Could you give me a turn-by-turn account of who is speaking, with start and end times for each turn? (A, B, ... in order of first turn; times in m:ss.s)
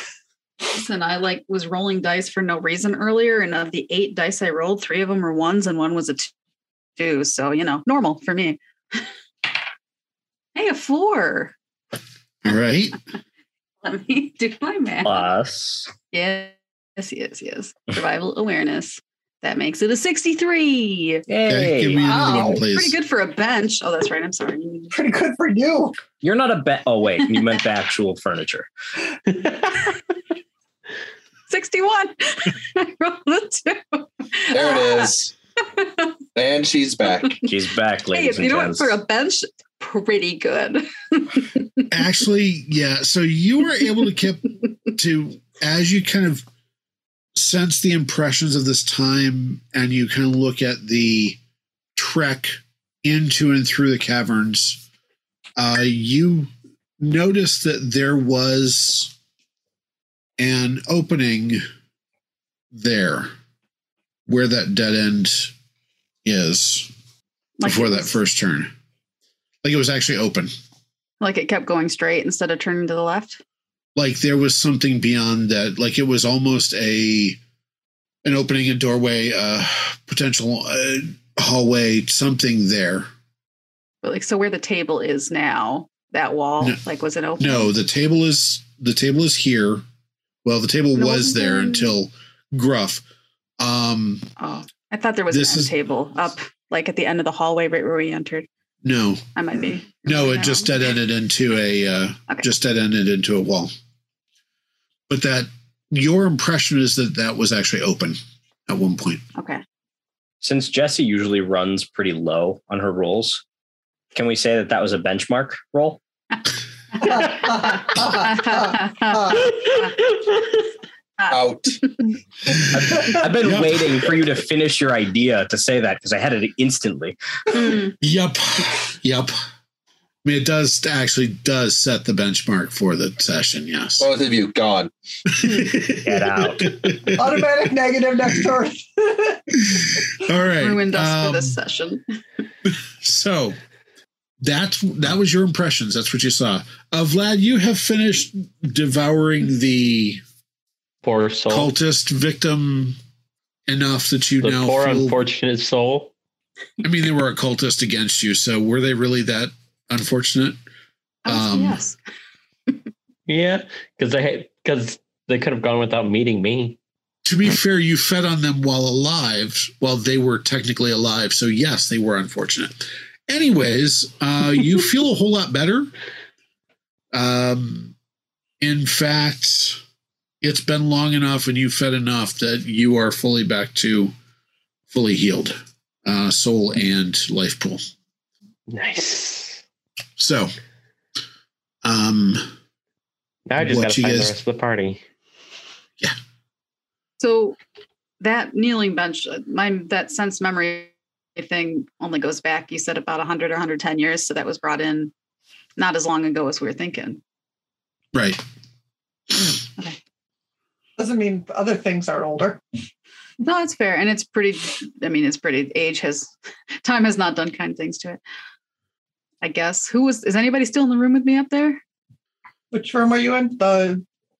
0:00.7-0:06.3 A
0:07.0-0:09.1 A
0:10.5-0:11.5 A
0:12.4-0:13.0 B
0:13.8-0:15.3 A
0:15.0-0:15.9 C
0:16.1-0:21.2 A
0:21.3-0:22.1 C
0:21.5-0:22.9 B
0:22.0-0:22.6 D
0:22.4-0:24.9 A
0:24.9-0:25.9 D
0:26.2-0:28.7 C
0:31.5-0:35.1 A
0:34.5-0:35.3 E
0:35.7-0:36.1 A
0:36.3-0:37.4 E
0:37.4-0:39.0 C
0:38.1-0:41.6 A
0:41.9-0:46.4 B
0:47.4-0:51.4 B
0:52.0-0:54.8 B
0:55.6-0:59.1 B
1:00.4-1:01.6 B
1:02.7-1:03.3 B
1:04.3-1:05.5 B
1:06.2-1:06.9 B
1:07.6-1:08.2 A
1:07.6-1:08.7 B
1:09.6-1:10.5 B
1:11.2-1:13.4 A
1:14.0-1:17.4 B
1:18.2-1:23.1 B
1:24.0-1:27.7 A
1:27.4-1:29.8 B
1:30.4-1:33.0 B
1:31.0-1:32.0 A
1:33.6-1:34.3 B
1:34.4-1:38.5 A
1:35.3-1:35.7 B
1:38.8-1:39.2 B
1:39.3-1:40.7 A
1:40.0-1:43.7 B
1:45.1-1:49.2 B
1:49.3-1:49.6 A
1:50.4-1:53.4 C
1:54.1-1:56.0 C
1:56.9-2:00.0 A
1:57.0-1:59.5 D
2:01.2-2:02.0 A
2:01.3-2:01.8 E
2:02.7-2:07.2 C
2:03.4-2:03.8 B
2:07.5-2:07.9 A
2:08.0-2:09.3 B
2:10.2-2:14.1 B
2:14.0-2:14.9 E
2:15.3-2:17.4 B
2:16.0-2:17.1 C
2:17.2-2:19.4 D
2:19.6-2:21.6 B
2:20.4-2:22.0 A
2:22.6-2:23.6 B
2:24.4-2:30.2 B
2:31.0-2:31.7 F
2:31.5-2:33.0 B
2:33.7-2:35.2 B
2:34.4-2:36.1 F
2:36.8-2:40.6 B
2:41.2-2:42.0 A
2:41.3-2:41.8 B
2:43.3-2:46.8 F
2:47.2-2:55.9 B
2:57.1-2:57.9 B
2:58.6-2:59.8 B
3:00.4-3:04.1 B
3:04.9-3:07.8 B
3:08.7-3:09.6 F
3:10.2-3:10.5 B
3:11.8-3:12.4 B
3:13.5-3:15.0 F
3:13.6-3:14.3 B
3:17.2-3:17.6 A
3:18.2-3:25.1 A
3:25.8-3:27.2 A
3:28.1-3:28.4 B
3:31.0-3:32.6 D
3:33.4-3:36.3 A
3:36.8-3:38.2 A
3:39.4-3:41.8 A
3:42.7-3:44.0 D